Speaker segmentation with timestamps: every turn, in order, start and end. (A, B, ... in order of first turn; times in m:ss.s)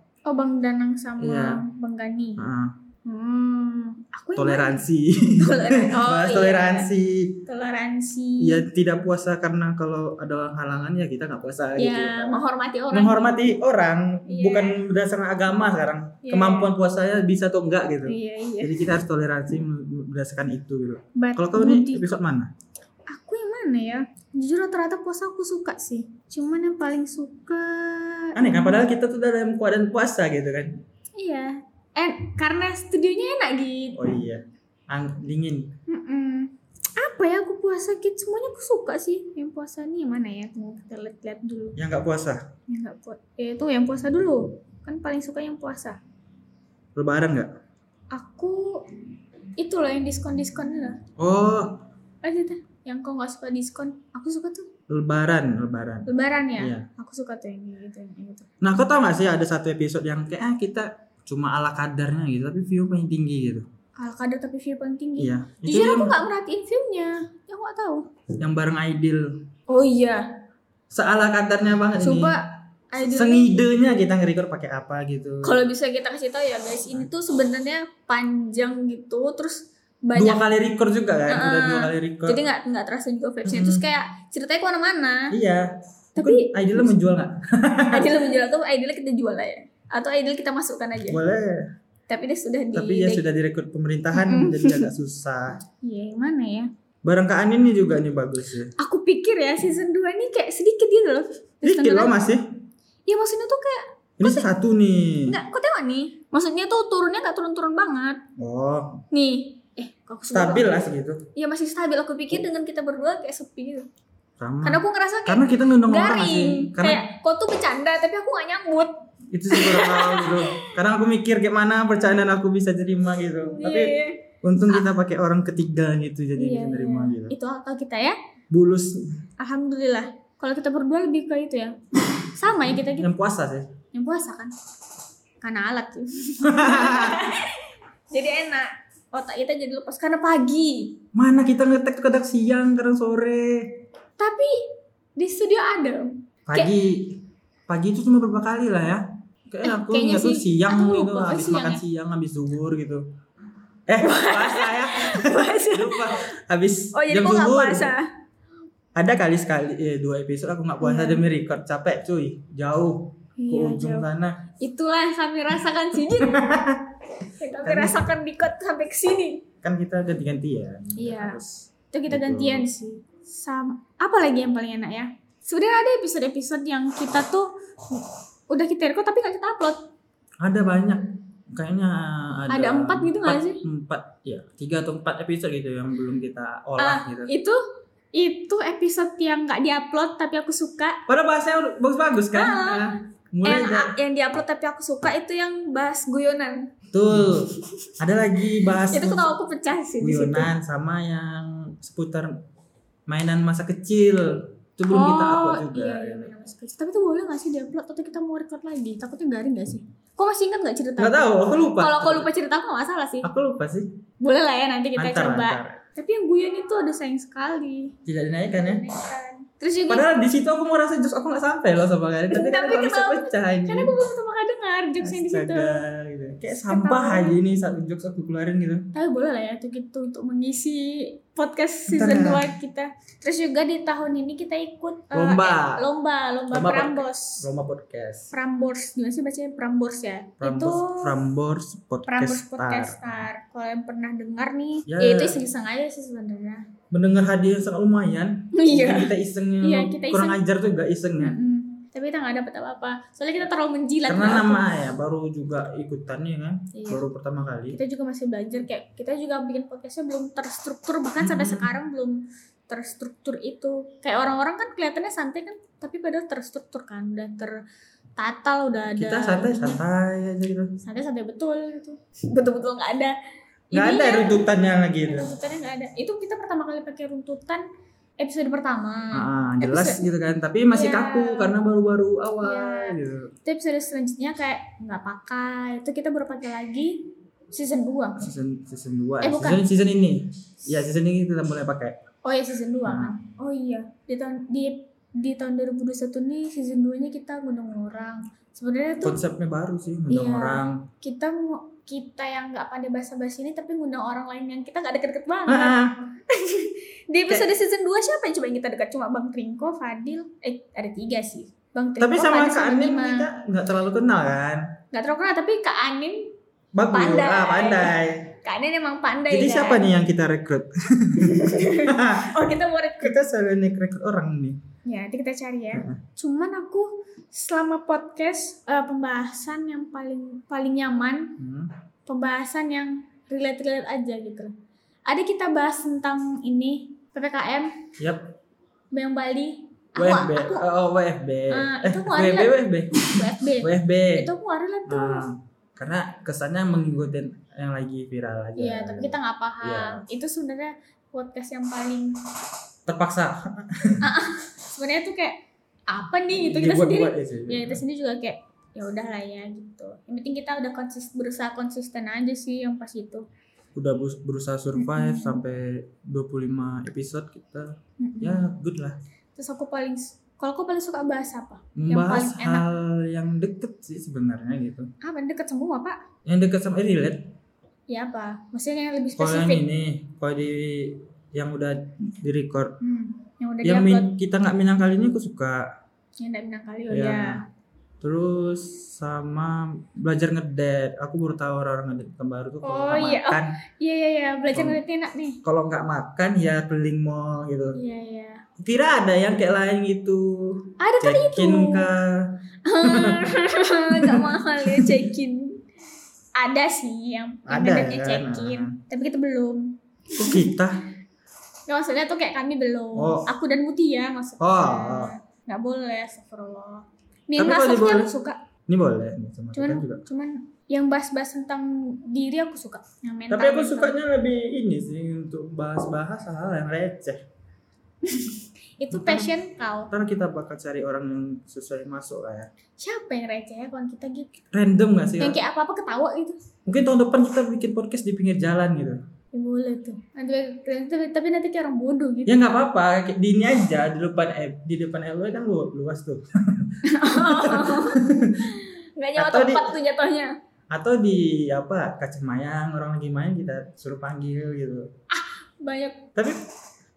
0:00.3-0:02.4 A
0:01.2-0:01.6 B
0:02.4-0:02.8 B
0:03.0-0:04.8 A
0:04.4-0:07.4 B
0:05.4-0:06.9 A
0:07.4-0:08.6 A
0:08.4-0:22.5 B
0:11.8-0:13.4 A
0:14.3-0:14.8 A
0:16.2-0:16.7 A
0:18.0-0:18.8 A
0:21.2-0:22.2 A
0:23.1-0:28.8 A
0:28.3-0:30.8 B
0:31.2-0:34.0 A
0:34.0-0:35.7 B
0:35.9-0:41.8 A
0:41.8-0:42.4 B
0:42.7-0:46.0 A
0:46.9-0:47.5 B
0:48.1-0:48.9 A
0:49.6-0:51.0 A
0:51.2-0:51.8 B
0:52.2-0:54.7 A
0:54.9-0:56.8 B
0:56.1-0:58.5 A
0:58.6-1:03.7 B
1:04.0-1:08.0 A
1:05.2-1:06.2 B
1:08.4-1:09.3 B
1:09.7-1:10.3 A
1:10.9-1:12.4 B
1:12.0-1:13.6 A
1:13.0-1:15.6 B
1:15.4-1:20.4 A
1:20.1-1:22.4 B
1:21.3-1:25.3 A
1:23.4-1:23.8 B
1:25.3-1:28.1 B
1:26.2-1:26.9 A
1:27.9-1:31.2 A
1:31.0-1:31.7 B
1:32.1-1:33.2 A
1:32.7-1:35.6 B
1:34.1-1:34.9 A
1:35.8-1:36.7 A
1:37.0-1:38.7 B
1:38.8-1:42.1 A
1:41.6-1:42.4 B
1:43.1-1:44.5 A
1:44.2-1:45.4 B
1:45.3-1:48.2 A
1:48.4-1:49.0 B
1:49.1-1:50.8 A
1:50.3-1:51.2 B
1:51.3-1:53.9 A
1:54.4-1:57.0 B
1:54.6-1:58.9 A
1:59.3-2:07.3 B
1:59.5-2:00.7 A
2:03.4-2:04.9 A
2:06.4-2:08.2 A
2:08.5-2:09.1 B
2:09.4-2:13.1 A
2:12.9-2:13.7 B
2:13.9-2:14.5 A
2:15.4-2:21.0 A
2:16.4-2:17.4 B
2:21.1-2:23.8 B
2:24.2-2:24.6 A
2:25.2-2:26.7 A
2:26.5-2:33.0 B
2:29.6-2:31.8 A
2:33.9-2:37.9 B
2:34.0-2:36.3 A
2:36.9-2:38.1 A
2:39.0-2:44.4 B
2:40.8-2:41.2 A
2:43.4-2:44.1 A
2:44.6-2:46.5 A
2:46.2-2:46.9 B
2:47.2-2:49.4 A
2:47.6-2:48.0 B
2:49.6-2:52.7 B
2:51.0-2:51.4 A
2:51.9-2:59.8 A
3:00.4-3:07.3 B
3:02.5-3:03.6 A
3:06.8-3:07.6 A
3:08.1-3:11.0 A
3:11.1-3:13.9 B
3:12.3-3:17.9 A
3:16.9-3:19.3 B
3:18.5-3:20.5 A
3:20.0-3:22.4 B
3:23.1-3:26.3 B
3:24.9-3:33.3 A
3:31.0-3:32.3 B
3:33.2-3:33.9 B
3:34.2-3:38.0 A
3:35.0-3:35.8 B
3:38.0-3:38.8 B
3:38.5-3:40.0 A
3:39.9-3:43.9 B
3:42.3-3:45.8 A
3:45.0-3:48.8 B
3:46.7-3:47.4 A
3:48.9-3:57.5 A
3:51.9-3:52.5 B
3:55.1-3:55.8 B
3:56.5-3:58.3 B
3:58.3-4:01.1 A
4:00.4-4:03.2 B
4:02.0-4:06.6 A
4:04.9-4:05.4 B
4:06.9-4:11.4 B
4:08.5-4:10.4 A
4:11.2-4:14.7 A
4:14.0-4:17.8 B
4:16.7-4:17.0 A
4:17.7-4:27.5 A
4:21.2-4:21.7 B
4:28.2-4:29.8 A
4:29.0-4:30.7 B
4:30.8-4:33.1 A
4:33.7-4:34.4 A
4:33.7-4:35.3 B
4:35.0-4:37.6 A
4:38.2-4:40.0 A
4:39.1-4:43.3 B
4:40.7-4:41.5 A
4:42.4-4:48.2 A
4:48.2-4:52.0 B
4:49.2-4:49.6 A
4:52.2-4:59.2 A
4:52.8-4:53.2 B
4:59.0-5:00.8 B
5:00.1-5:05.8 A
5:05.5-5:05.9 B
5:06.3-5:13.3 A
5:12.0-5:14.6 B
5:14.9-5:16.3 A
5:16.7-5:18.3 B
5:16.9-5:19.8 A
5:19.3-5:22.3 B
5:21.2-5:23.2 A
5:23.0-5:24.6 B
5:24.8-5:31.4 A
5:25.7-5:26.0 B
5:31.4-5:31.7 B
5:32.1-5:34.5 A
5:35.1-5:37.7 A
5:38.0-5:38.3 B
5:38.9-5:40.6 A
5:40.0-5:44.3 B
5:41.5-5:45.2 A
5:44.9-5:50.0 B
5:48.6-5:52.2 A
5:52.9-5:54.0 B
5:54.0-6:03.2 A
5:56.4-5:57.8 B
6:03.7-6:09.0 B
6:04.7-6:05.4 A
6:08.0-6:08.4 A
6:09.4-6:12.6 A
6:11.8-6:14.9 B
6:15.0-6:16.0 A
6:16.2-6:17.2 B
6:17.9-6:19.6 A
6:19.2-6:22.8 B
6:22.8-6:24.1 A
6:23.6-6:25.7 B
6:26.2-6:27.4 A
6:26.9-6:27.4 B
6:28.0-6:33.5 B
6:32.6-6:35.4 A
6:34.5-6:34.8 B
6:35.4-6:37.8 B
6:37.7-6:38.4 A
6:38.6-6:42.1 B
6:40.8-6:41.9 A
6:42.6-6:45.6 A
6:42.8-6:45.0 B
6:46.4-6:50.6 A
6:47.5-6:48.7 B
6:50.2-6:50.8 B
6:51.7-6:58.4 A
6:53.0-6:53.3 B
6:54.4-6:55.1 B
6:57.4-6:58.1 B
6:58.7-7:00.0 B
6:59.5-7:04.0 A
7:03.3-7:07.2 B
7:08.0-7:09.9 A
7:08.9-7:09.3 B
7:09.9-7:12.5 B
7:12.8-7:14.3 A
7:14.5-7:15.4 B
7:15.2-7:16.4 A
7:16.6-7:19.0 B
7:19.3-7:22.4 A
7:22.2-7:28.5 B
7:26.8-7:30.3 A
7:29.2-7:29.7 B
7:30.7-7:34.9 B
7:35.1-7:36.1 A